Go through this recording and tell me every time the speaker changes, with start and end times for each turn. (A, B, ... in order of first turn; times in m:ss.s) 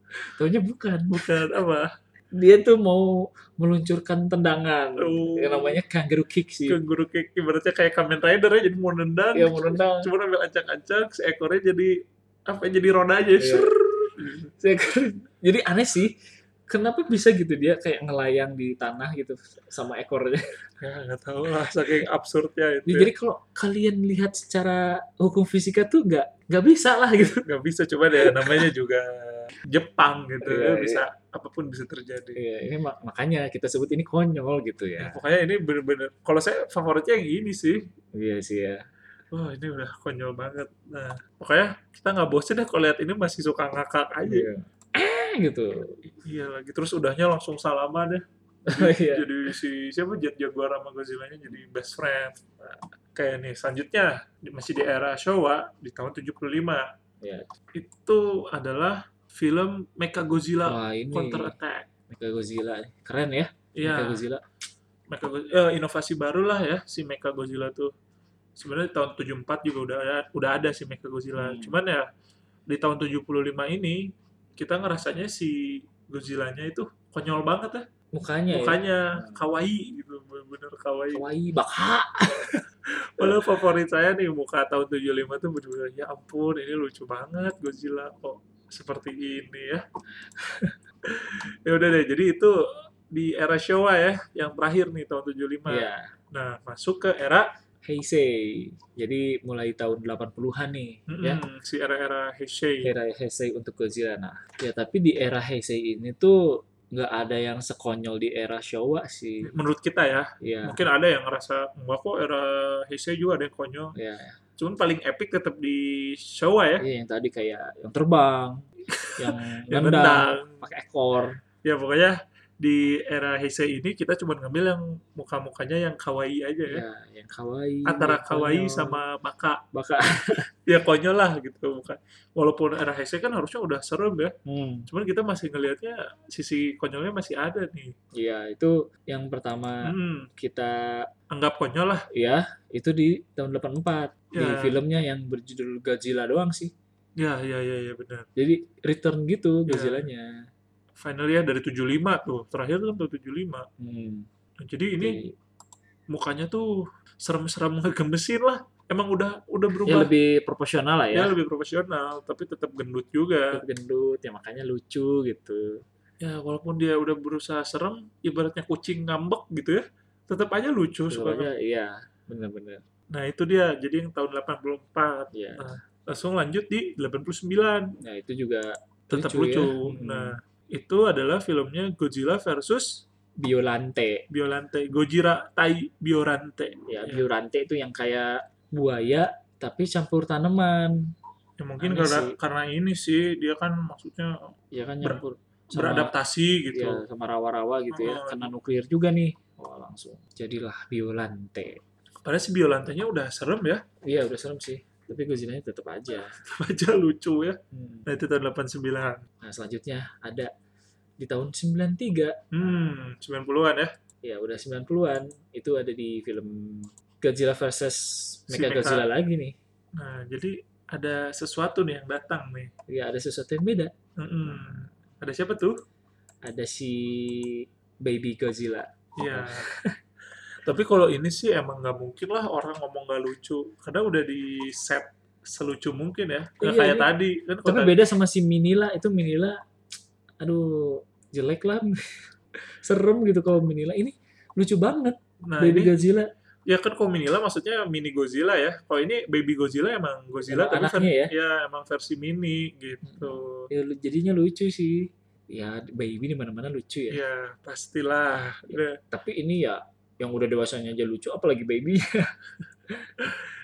0:00.2-0:01.4 A
0:01.1-0:01.9 B
0:02.3-0:06.8 A
0:05.0-0:05.8 B
0:06.7-0:12.0 B
0:09.3-0:10.1 A
0:12.5-0:14.5 B
0:13.4-0:13.7 A
0:14.6-0:16.1 A
0:16.7-0:20.6 A
0:20.8-0:23.1 B
0:22.9-0:27.4 A
0:27.4-0:32.4 B
0:28.1-0:28.6 A
0:30.4-0:31.0 A
0:32.3-0:35.2 A
0:35.0-0:37.8 B
0:38.1-0:38.8 A
0:39.3-0:44.5 B
0:44.2-0:46.0 A
0:46.0-0:56.9 B
0:48.7-0:49.5 A
0:57.2-0:57.5 A
0:57.7-1:01.9 B
1:00.6-1:01.5 A
1:02.1-1:04.4 A
1:03.7-1:04.2 B
1:05.1-1:07.9 B
1:08.6-1:12.1 B
1:11.4-1:11.8 A
1:12.7-1:17.8 B
1:18.1-1:19.4 A
1:18.5-1:21.2 B
1:21.1-1:22.6 A
1:22.4-1:29.8 B
1:30.4-1:30.7 A
1:31.0-1:32.5 B
1:33.1-1:37.5 B
1:35.7-1:36.1 A
1:37.8-1:41.4 A
1:41.1-1:42.9 B
1:42.8-1:49.5 A
1:49.4-1:53.9 B
1:50.4-1:50.8 A
1:53.9-1:54.4 A
1:54.6-1:56.8 B
1:56.8-2:01.4 A
1:58.9-2:00.6 B
2:01.6-2:06.8 B
2:06.7-2:09.0 A
2:07.8-2:09.6 B
2:09.7-2:10.4 A
2:10.3-2:14.3 B
2:14.4-2:14.9 A
2:14.9-2:17.9 B
2:18.1-2:21.1 A
2:19.8-2:20.3 B
2:21.3-2:22.1 B
2:22.1-2:26.7 A
2:24.3-2:24.8 B
2:27.2-2:28.3 B
2:28.4-2:30.4 A
2:29.7-2:30.0 B
2:31.0-2:33.6 B
2:33.8-2:34.3 A
2:34.6-2:35.2 B
2:35.0-2:35.3 A
2:36.1-2:40.1 B
2:39.8-2:41.4 A
2:41.1-2:43.6 B
2:43.5-2:45.8 A
2:46.2-2:51.5 B
2:51.1-2:52.8 A
2:53.1-2:57.9 B
2:55.3-2:55.8 A
2:58.0-3:00.4 A
2:59.1-3:03.0 B
3:03.4-3:04.2 A
3:04.3-3:07.2 B
3:06.9-3:11.1 A
3:11.6-3:17.0 B
3:11.8-3:12.4 A
3:14.7-3:16.1 A
3:16.7-3:21.8 A
3:17.9-3:18.5 B
3:22.2-3:23.8 B
3:24.0-3:26.4 A
3:26.1-3:29.2 B
3:27.7-3:28.1 A
3:29.4-3:30.5 A
3:31.2-3:32.4 A
3:32.5-3:33.9 B
3:34.2-3:39.5 A
3:38.5-3:39.1 B
3:40.0-3:42.7 B
3:42.9-3:43.9 A
3:44.2-3:45.8 B
3:44.5-3:44.9 A
3:46.4-3:49.9 A
3:49.2-3:49.7 B
3:50.6-3:58.0 B
3:56.6-3:57.1 A
3:57.6-3:59.6 A
4:00.4-4:06.3 A
4:05.4-4:05.9 B
4:06.6-4:13.7 B
4:10.4-4:11.3 A
4:13.0-4:17.2 A
4:17.1-4:19.0 B
4:18.7-4:22.3 A
4:23.2-4:23.5 B